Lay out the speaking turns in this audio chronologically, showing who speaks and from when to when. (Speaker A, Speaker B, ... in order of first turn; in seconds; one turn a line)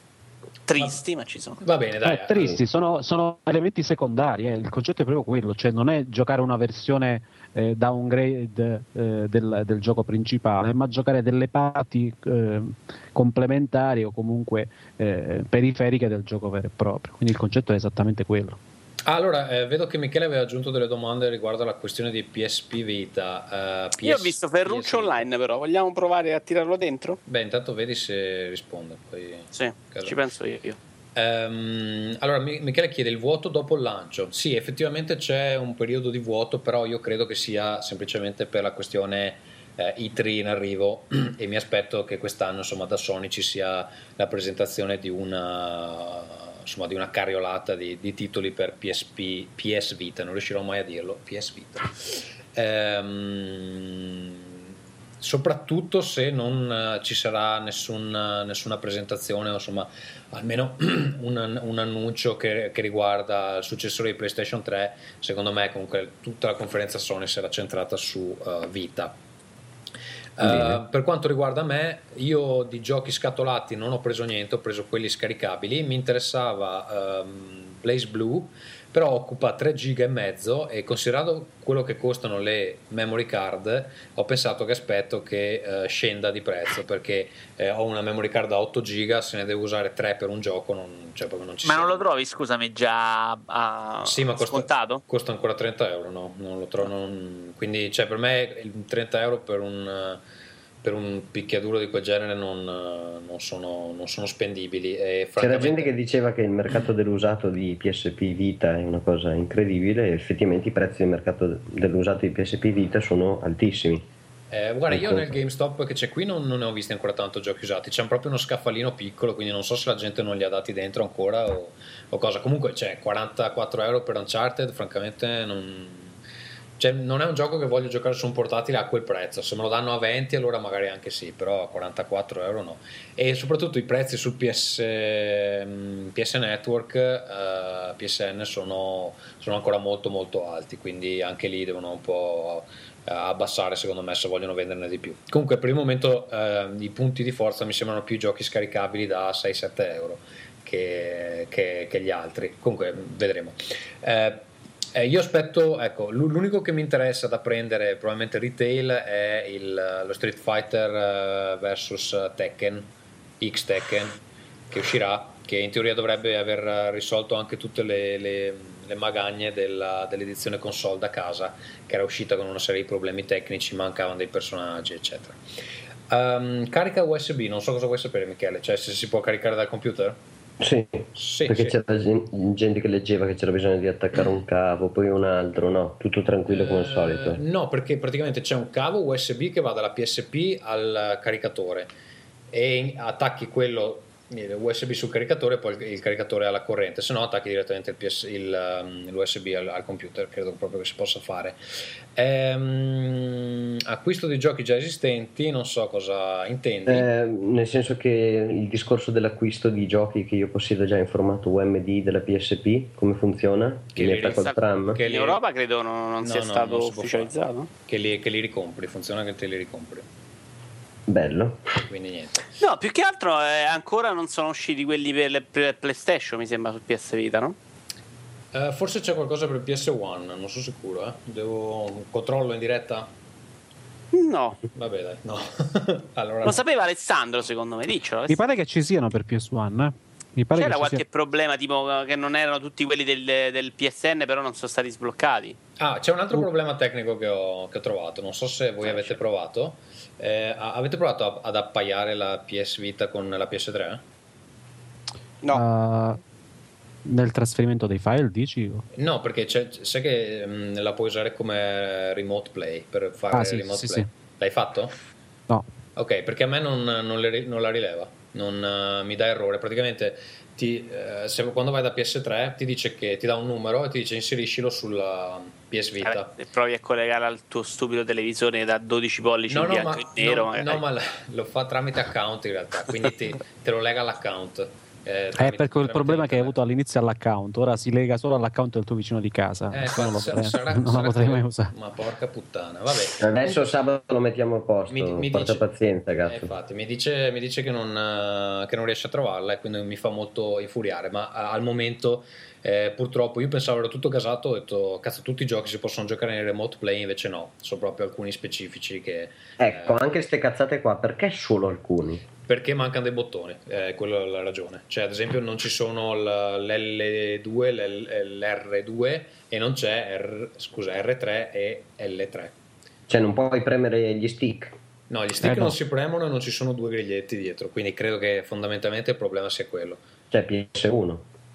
Speaker A: 0.7-1.6
Speaker B: 1.6-2.6
Speaker C: 2.0-18.6
Speaker B: 19.0-25.2
Speaker A: 24.0-27.2
Speaker B: 27.2-30.1
Speaker A: 29.5-30.8
Speaker B: 31.1-54.3
Speaker B: 55.2-69.2
Speaker B: 70.4-92.0
Speaker D: 70.4-70.8
Speaker A: 91.6-95.0
Speaker B: 94.0-100.2
Speaker B: 100.8-105.9
Speaker D: 105.4-114.1
Speaker B: 114.5-126.1
Speaker D: 114.9-115.3
Speaker B: 126.8-162.9
Speaker B: 163.4-175.4
Speaker B: 176.1-180.2
Speaker D: 180.6-187.4
Speaker B: 181.2-181.8
Speaker B: 186.5-191.9
Speaker B: 192.5-201.6
Speaker B: 202.1-207.1
Speaker D: 206.8-215.0
Speaker B: 213.9-215.4
Speaker A: 214.3-217.7
Speaker B: 216.2-217.3
Speaker B: 217.9-220.1
Speaker D: 221.1-221.7
Speaker B: 221.9-222.4
Speaker A: 222.6-227.6
Speaker B: 228.5-233.1
Speaker A: 234.1-234.6
Speaker B: 234.7-236.6
Speaker A: 236.4-238.4
Speaker C: 238.3-241.0
Speaker A: 240.5-245.6
Speaker B: 245.8-254.0
Speaker A: 248.8-249.2
Speaker C: 255.5-256.2
Speaker C: 257.0-258.8
Speaker B: 258.9-264.9
Speaker C: 263.3-264.1
Speaker B: 265.9-276.3
Speaker A: 276.0-280.8
Speaker B: 279.5-286.6
Speaker C: 285.4-291.7
Speaker B: 289.7-293.7
Speaker D: 293.2-296.5
Speaker B: 294.9-295.6
Speaker B: 296.2-310.1
Speaker D: 309.6-312.2
Speaker B: 312.4-322.5
Speaker D: 323.1-324.8
Speaker B: 325.1-330.0
Speaker C: 325.4-325.7
Speaker D: 330.3-331.2